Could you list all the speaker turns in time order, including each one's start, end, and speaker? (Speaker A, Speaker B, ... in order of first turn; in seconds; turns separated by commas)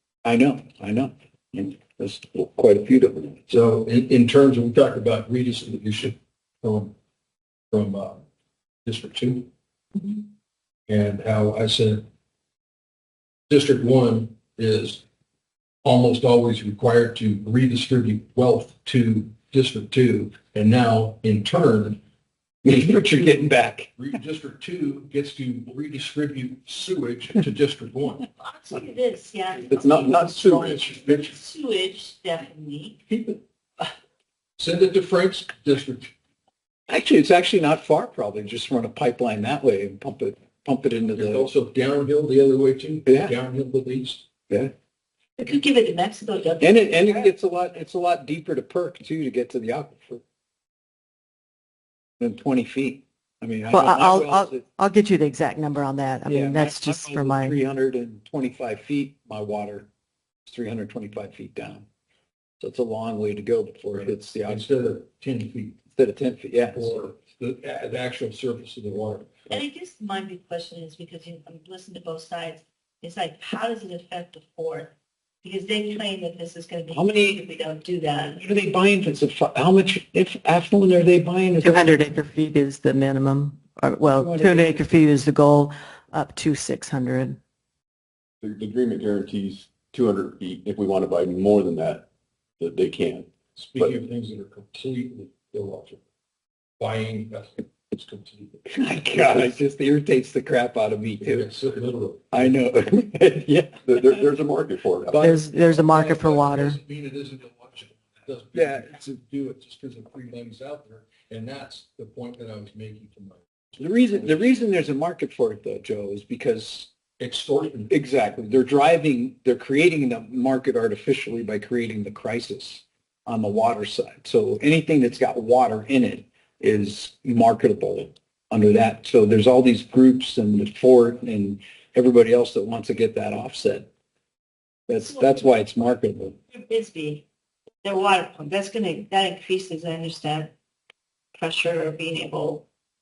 Speaker A: 0.2-3.4, Speaker B: 3.5-6.9, Speaker B: 7.7-8.2, Speaker B: 8.8-9.5, Speaker B: 10.9-12.0, Speaker B: 13.5-15.0, Speaker B: 15.8-22.0, Speaker A: 22.6-23.9, Speaker B: 23.1-28.2, Speaker C: 28.3-33.0, Speaker D: 29.7-30.8, Speaker B: 30.5-31.3, Speaker B: 33.1-33.4, Speaker B: 34.6-36.1, Speaker A: 36.9-41.5, Speaker B: 41.1-44.3, Speaker A: 43.0-43.3, Speaker C: 45.4-47.3, Speaker A: 46.6-50.2, Speaker A: 52.2-54.6, Speaker E: 53.7-57.5, Speaker A: 56.2-59.9, Speaker A: 60.5-61.9, Speaker A: 62.6-64.7, Speaker B: 63.9-65.8, Speaker A: 65.9-66.9, Speaker B: 66.7-69.6, Speaker C: 69.5-78.4, Speaker A: 76.9-77.4, Speaker A: 78.4-81.8, Speaker E: 81.6-87.4, Speaker A: 84.2-84.8, Speaker D: 88.4-92.1, Speaker D: 92.6-94.0, Speaker B: 93.5-96.0, Speaker B: 96.8-98.6, Speaker A: 98.7-101.5, Speaker B: 101.2-102.5, Speaker A: 102.3-103.8, Speaker D: 103.8-105.3, Speaker E: 105.1-106.8, Speaker B: 105.5-113.4, Speaker A: 108.5-109.2, Speaker A: 113.8-116.9, Speaker B: 117.2-117.9, Speaker A: 117.9-133.9, Speaker A: 134.9-136.4, Speaker C: 135.1-135.3, Speaker C: 136.5-137.2, Speaker C: 137.8-140.5, Speaker C: 141.3-142.7